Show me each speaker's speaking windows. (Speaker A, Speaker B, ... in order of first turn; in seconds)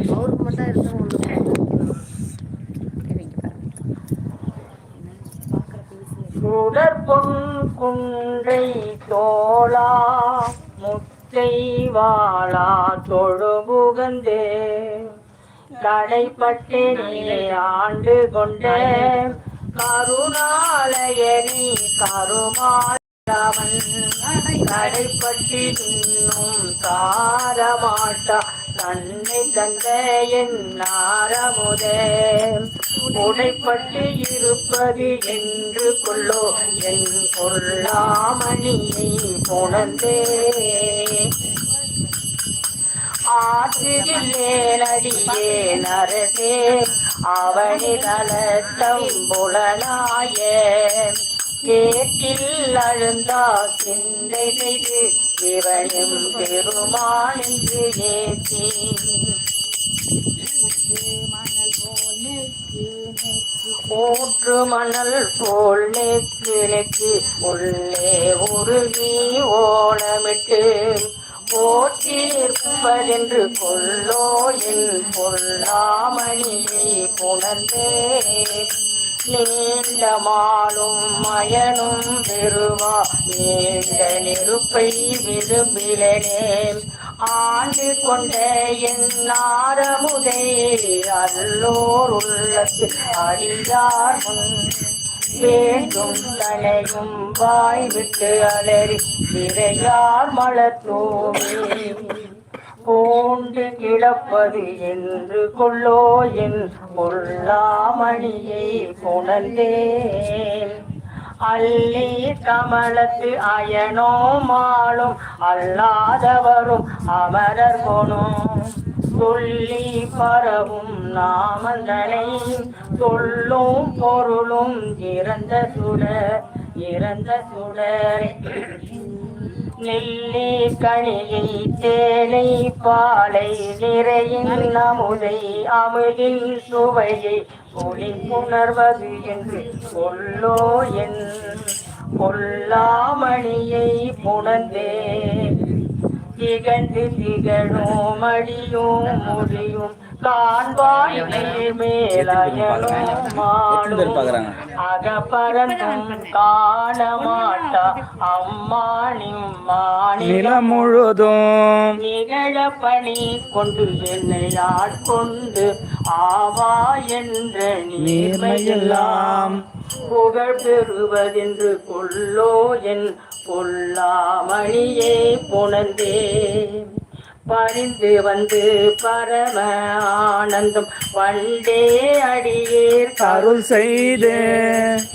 Speaker A: 0.1-2.0, 3.0-3.7, 4.9-6.3, 60.7-62.6
Speaker B: 6.3-15.1, 15.8-41.3, 43.3-59.4, 63.8-78.7, 79.3-94.7, 95.3-102.3, 102.8-110.8, 111.4-126.2, 126.8-145.8, 146.4-160.8, 162.0-176.9, 177.5-184.8
Speaker C: 152.1-154.7, 160.2-161.9, 168.0-169.6, 183.2-185.0